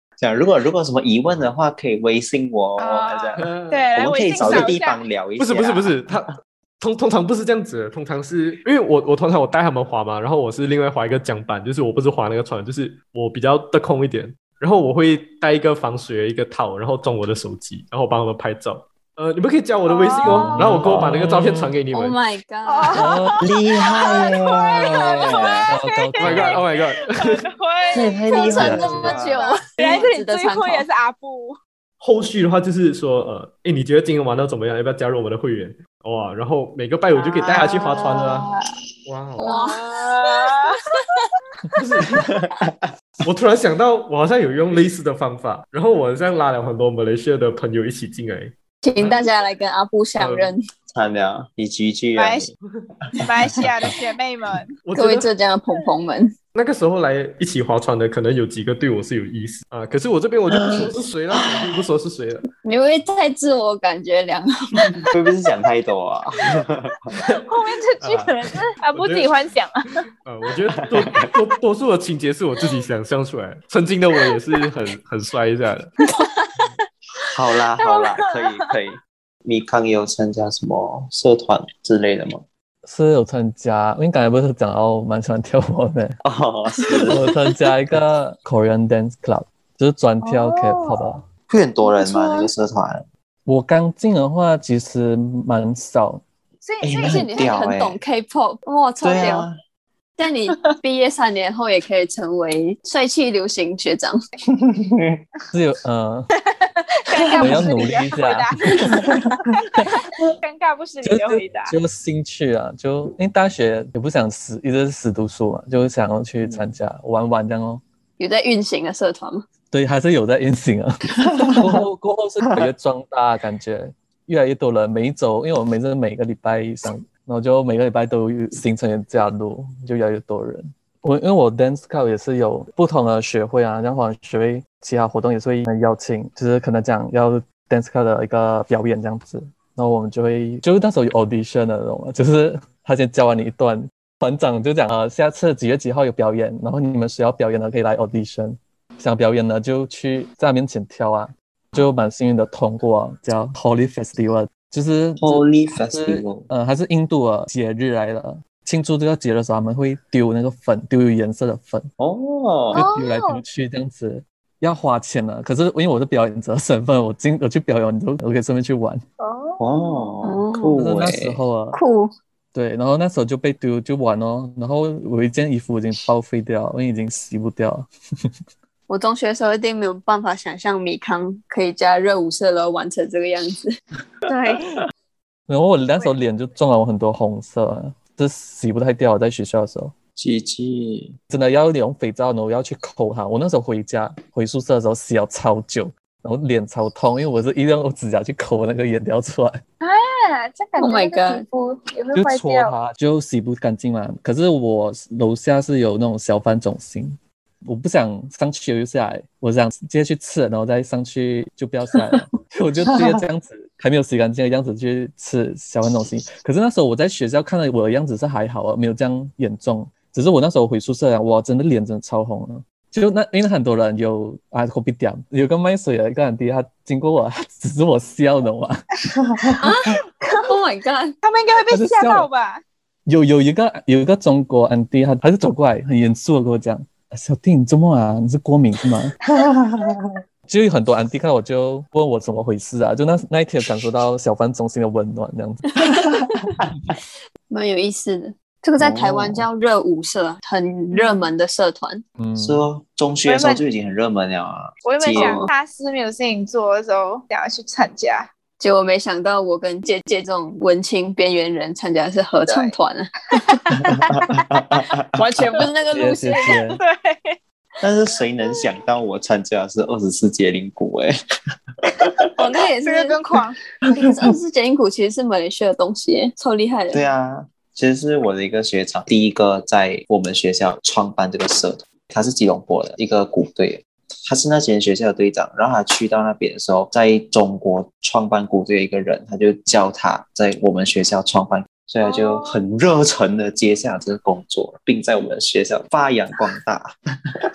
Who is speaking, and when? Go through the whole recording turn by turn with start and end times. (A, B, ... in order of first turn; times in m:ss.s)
0:00.2-0:06.0 A
0:02.8-0:05.0 B
0:03.4-0:04.8 C
0:05.4-0:22.2 C
0:19.9-0:20.5 B
0:20.5-0:21.2 A
0:20.5-0:21.7 D
0:21.9-0:23.2 E
0:22.7-0:31.6 B
0:22.9-0:23.4 D
0:23.4-0:25.7 A
0:25.7-0:26.6 D
0:26.2-0:27.4 C
0:27.9-0:29.5 A
0:28.3-0:30.8 E
0:28.6-0:29.2 D
0:32.0-0:38.5 C
0:37.2-0:38.1 B
0:39.1-0:39.5 C
0:39.4-0:40.7 E
0:39.4-0:40.8 B
0:41.8-0:42.3 C
0:42.3-0:42.9 A
0:43.2-0:49.2 C
0:48.8-0:50.6 E
0:50.2-0:50.5 C
0:50.9-0:52.5 A
0:52.2-0:52.5 B
0:53.2-0:53.7 A
0:53.2-0:54.7 B
0:54.8-0:55.3 C
0:55.0-0:56.3 E
0:56.6-1:02.5 C
1:00.5-1:00.9 A
1:02.6-1:04.9 E
1:05.1-1:07.2 A
1:07.5-1:10.0 B
1:08.0-1:08.4 C
1:08.9-1:09.3 C
1:10.3-1:15.9 C
1:10.8-1:11.3 A
1:17.3-1:22.4 A
1:17.9-1:18.1 B
1:22.8-1:26.2 D
1:26.2-1:27.2 A
1:27.1-1:31.2 D
1:30.2-1:30.9 B
1:31.5-1:33.0 A
1:31.8-1:32.5 E
1:33.5-1:36.2 D
1:36.6-1:37.5 B
1:36.8-1:38.0 A
1:37.0-1:39.5 E
1:39.0-1:39.5 A
1:40.2-1:44.2 E
1:44.7-1:45.2 A
1:45.5-1:46.3 D
1:46.5-1:51.7 B
1:47.4-1:47.7 E
1:47.4-1:48.5 D
1:51.0-1:57.8 D
1:56.4-1:56.7 A
1:58.2-1:59.5 E
1:59.7-2:41.9 D
2:35.2-2:36.5 A
2:42.0-2:42.8 A
2:42.7-2:49.0 D
2:42.8-2:43.3 B
2:49.2-2:50.2 B
2:49.6-2:51.4 A
2:50.2-2:50.8 E
2:50.8-2:51.8 D
2:51.7-2:52.1 E
2:52.5-2:57.9 D
2:58.9-3:03.8 E
3:04.3-3:04.6 B
3:05.5-3:09.9 D
3:10.2-3:11.2 A
3:11.3-3:19.6 D
3:19.8-3:22.7 B
3:20.8-3:21.5 E
3:22.1-3:48.8 D
3:32.9-3:33.2 A
3:49.2-3:49.7 A
3:49.6-3:51.2 E
3:51.2-3:52.6 B
3:51.7-3:52.3 D
3:53.1-3:59.2 D
3:59.4-4:00.1 A
4:00.5-4:05.8 D
4:05.8-4:06.2 E
4:07.5-4:12.0 E
4:08.8-4:09.5 D
4:10.9-4:11.3 B
4:12.2-4:12.6 D
4:12.4-4:15.4 A
4:13.3-4:13.6 B
4:14.8-4:18.3 B
4:15.1-4:15.5 E
4:18.6-4:23.8 E
4:22.5-4:22.8 B
4:23.4-4:23.8 B
4:23.9-4:25.0 A
4:24.3-4:24.6 B
4:25.2-4:26.6 E
4:25.9-4:26.8 D
4:26.8-4:27.4 B
4:27.8-4:31.1 A
4:32.4-4:33.2 E
4:32.8-4:33.6 B
4:33.9-4:37.0 E
4:33.9-4:34.3 A
4:36.9-4:56.9 A
4:52.0-4:52.6 B